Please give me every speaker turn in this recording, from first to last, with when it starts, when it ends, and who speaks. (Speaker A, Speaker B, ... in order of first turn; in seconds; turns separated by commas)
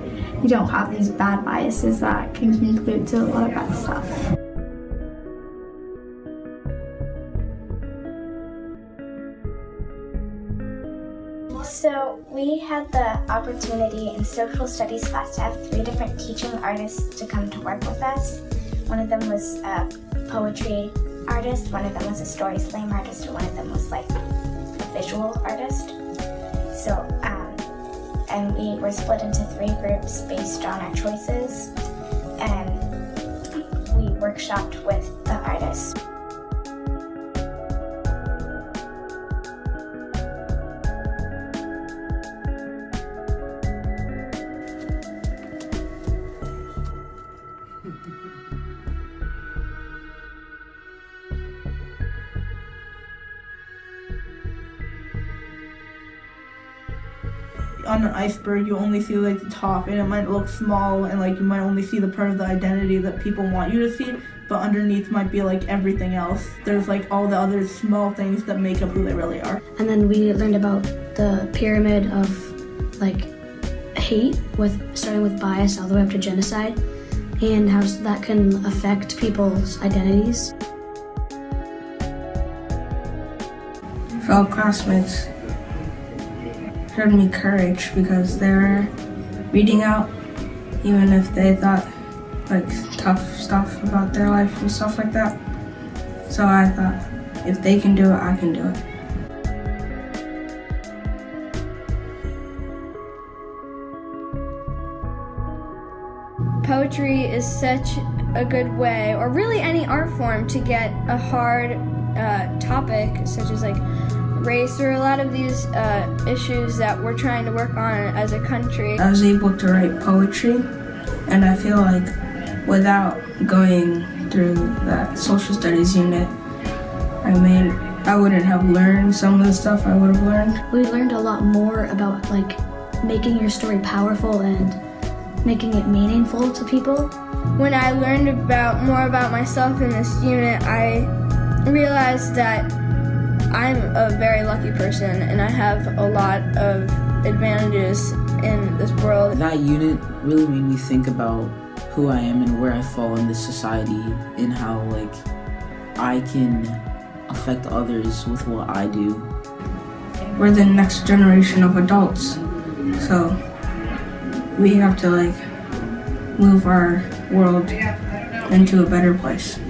Speaker A: 0.4-4.2, Speaker B: 11.6-24.1, Speaker B: 24.8-25.9, Speaker B: 26.7-27.6, Speaker B: 28.3-31.7, Speaker B: 32.4-32.9, Speaker B: 33.9-35.9, Speaker C: 57.8-69.6, Speaker D: 69.8-73.3, Speaker D: 73.9-76.8, Speaker D: 77.4-80.5, Speaker E: 84.2-85.3, Speaker E: 86.9-88.9, Speaker E: 89.5-90.1, Speaker E: 90.8-91.9, Speaker E: 92.5-95.3, Speaker E: 96.3-98.8, Speaker F: 106.6-113.8, Speaker F: 114.3-119.0, Speaker E: 119.0-120.6, Speaker E: 121.3-122.1, Speaker E: 122.6-126.3, Speaker E: 127.2-130.6, Speaker D: 130.7-134.8, Speaker D: 135.4-137.1, Speaker F: 137.6-141.1, Speaker F: 141.7-142.7, Speaker F: 143.5-149.4, Speaker G: 149.3-155.3, Speaker G: 156.0-159.3, Speaker E: 160.4-162.4, Speaker E: 163.0-163.3, Speaker E: 164.6-165.4, Speaker E: 166.4-167.8, Speaker E: 168.4-169.6